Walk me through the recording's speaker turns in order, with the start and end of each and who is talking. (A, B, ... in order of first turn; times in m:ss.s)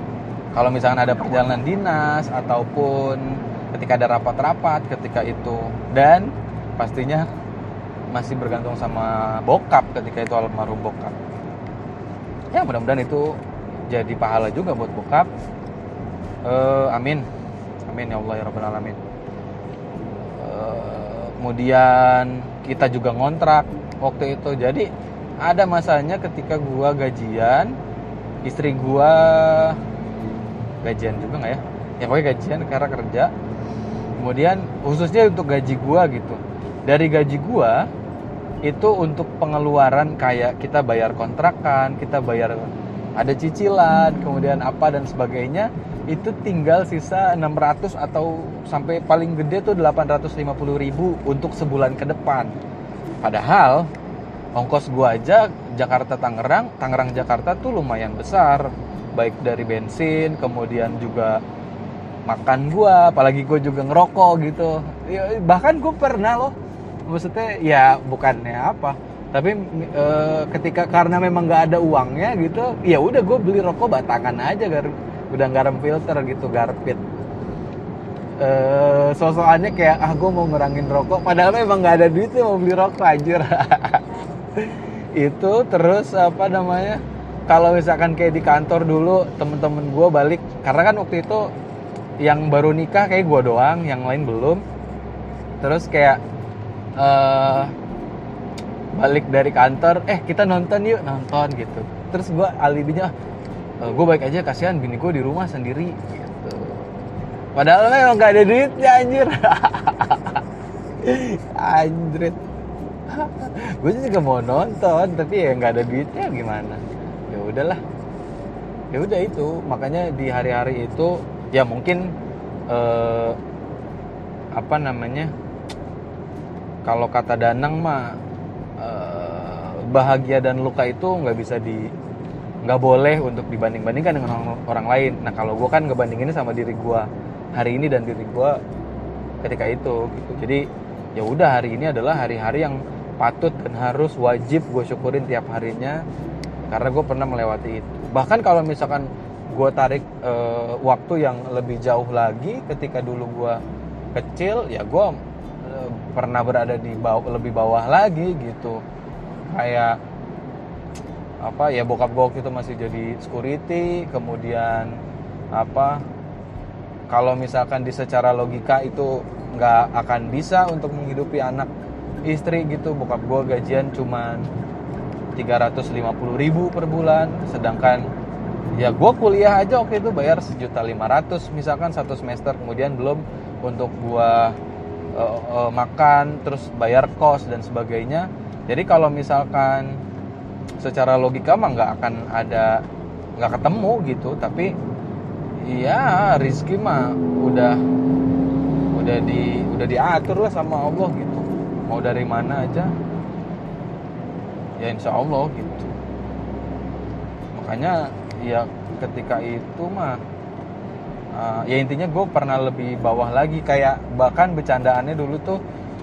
0:00.5-0:07.3 A
0:08.1-0:11.2 A
0:12.5-0:15.3 A
0:16.4-0:17.3 A
0:17.8-0:19.0 A
0:20.3-0:24.9 A
0:25.4-0:27.8 A
0:28.4-0:29.8 A
0:30.8-0:33.3 A
0:34.2-0:37.9 A
0:38.6-0:52.5 A
0:53.2-0:53.9 A
0:54.6-1:01.4 A
1:02.3-1:06.6 A
1:07.1-1:17.0 A
1:18.4-1:31.5 A
1:32.2-1:34.6 A
1:35.6-1:36.2 A
1:37.0-1:37.7 A
1:39.0-1:43.1 A
1:43.8-1:46.9 A
1:47.6-1:50.4 A
1:51.0-1:52.4 A
1:53.1-1:57.8 A
1:58.9-2:02.1 A
2:02.7-2:03.4 A
2:04.6-2:05.3 A
2:06.8-2:08.2 A
2:08.8-2:11.9 A
2:12.6-2:18.6 A
2:19.4-2:26.0 A
2:26.7-2:33.6 A
2:34.1-2:38.8 A
2:39.5-2:40.0 A
2:41.4-2:45.0 A
2:45.5-2:46.0 A
2:47.1-2:51.7 A
2:52.3-2:54.5 A
2:55.4-2:58.1 A
2:58.8-3:04.6 A
3:05.1-3:10.0 A
3:10.8-3:12.8 A
3:13.4-3:14.8 A
3:15.6-3:17.8 A
3:18.9-3:22.9 A
3:24.8-3:26.0 A
3:27.5-3:30.2 A
3:31.3-3:35.6 A